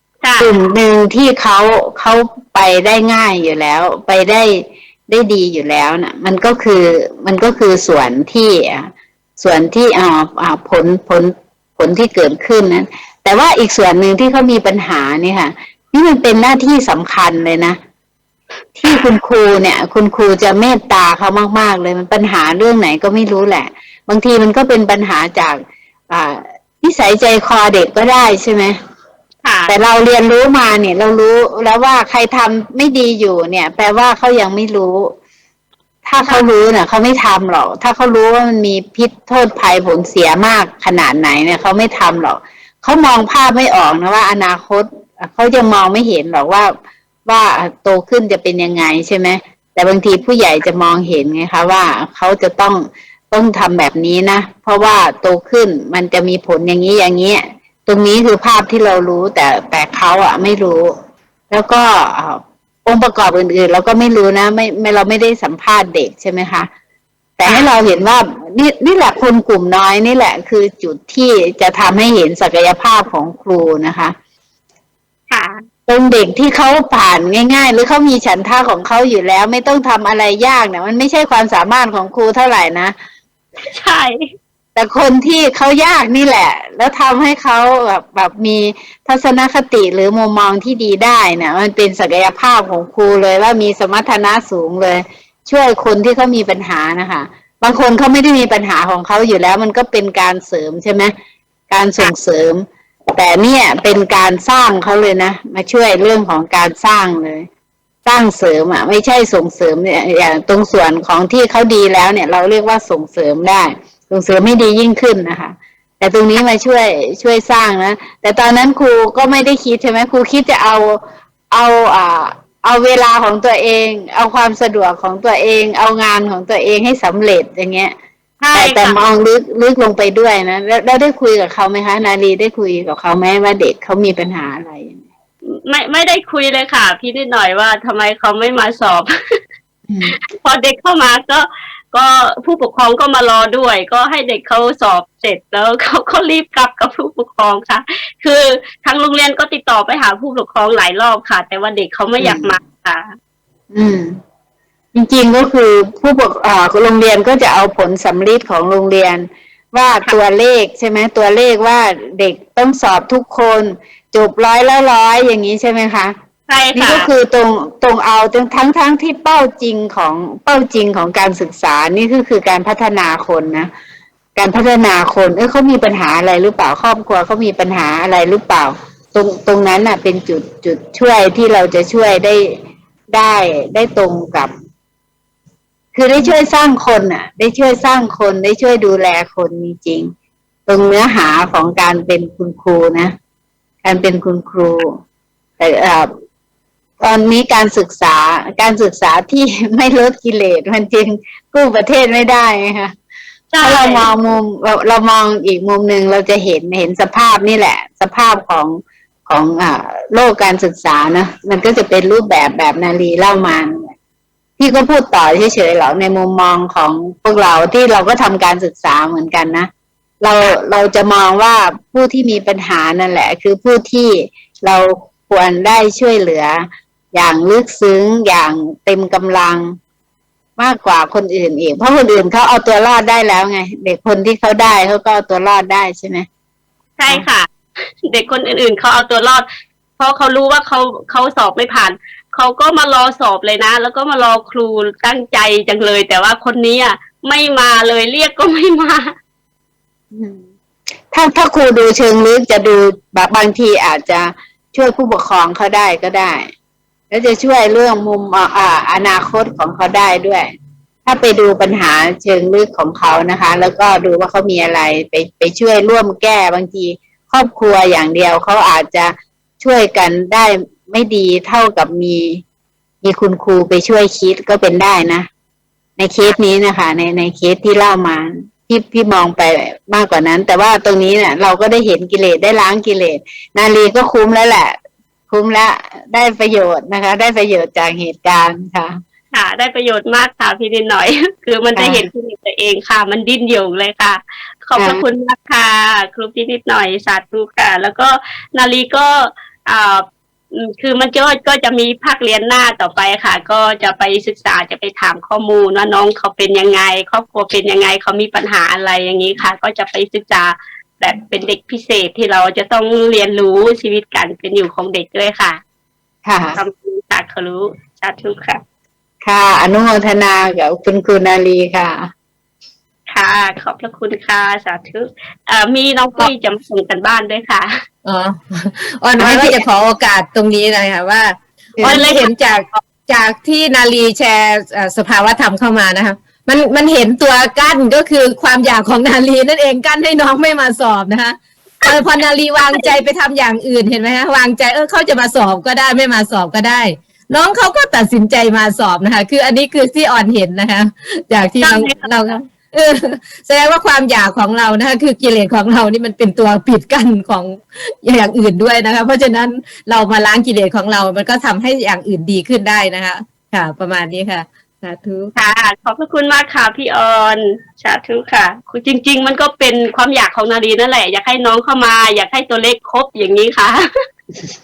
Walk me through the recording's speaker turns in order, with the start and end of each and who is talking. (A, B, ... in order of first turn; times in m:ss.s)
0:00.2-0:00.5 A
0:00.4-0:17.8 B
0:18.8-0:28.7 B
0:29.4-0:29.7 A
0:29.7-0:35.1 B
0:36.0-0:46.7 B
0:47.3-1:00.9 B
1:01.5-1:06.7 B
1:07.4-1:14.1 B
1:07.4-1:07.7 A
1:15.3-1:15.6 A
1:15.9-1:22.9 B
1:23.7-1:24.2 A
1:24.8-1:41.1 B
1:41.7-1:42.6 B
1:43.1-1:47.4 B
1:48.0-2:01.0 B
2:01.5-2:07.9 B
2:08.4-2:09.0 A
2:08.5-2:15.0 B
2:15.6-2:19.1 A
2:19.9-2:20.1 B
2:20.3-2:33.1 A
2:32.2-2:32.5 B
2:33.7-2:34.2 B
2:34.9-2:46.1 B
2:46.5-2:47.1 A
2:46.8-2:53.7 B
2:54.4-3:02.6 B
3:03.1-3:04.5 B
3:05.9-3:10.1 B
3:10.7-3:13.1 B
3:13.8-3:15.0 B
3:15.6-3:16.1 B
3:17.0-3:22.9 B
3:23.5-3:24.1 A
3:23.6-3:33.9 B
3:34.6-3:39.7 B
3:40.2-3:49.7 B
3:50.6-3:56.2 B
3:57.0-3:57.5 A
3:58.0-3:59.4 A
4:00.0-4:09.1 A
4:10.1-4:10.4 B
4:11.1-4:16.5 B
4:17.1-4:20.5 B
4:21.0-4:32.4 B
4:33.0-4:35.3 B
4:36.0-4:44.7 B
4:45.3-4:48.9 B
4:49.3-5:15.6 A
4:51.7-4:52.0 B
4:54.8-4:55.0 B
5:16.2-5:16.6 B
5:16.6-5:18.6 A
5:19.2-5:22.1 B
5:23.1-5:27.7 A
5:28.0-6:05.3 C
5:29.2-5:29.6 B
5:31.8-5:32.0 B
5:31.8-5:32.3 A
5:42.6-5:42.9 A
5:51.6-5:52.1 A
6:05.3-6:13.8 A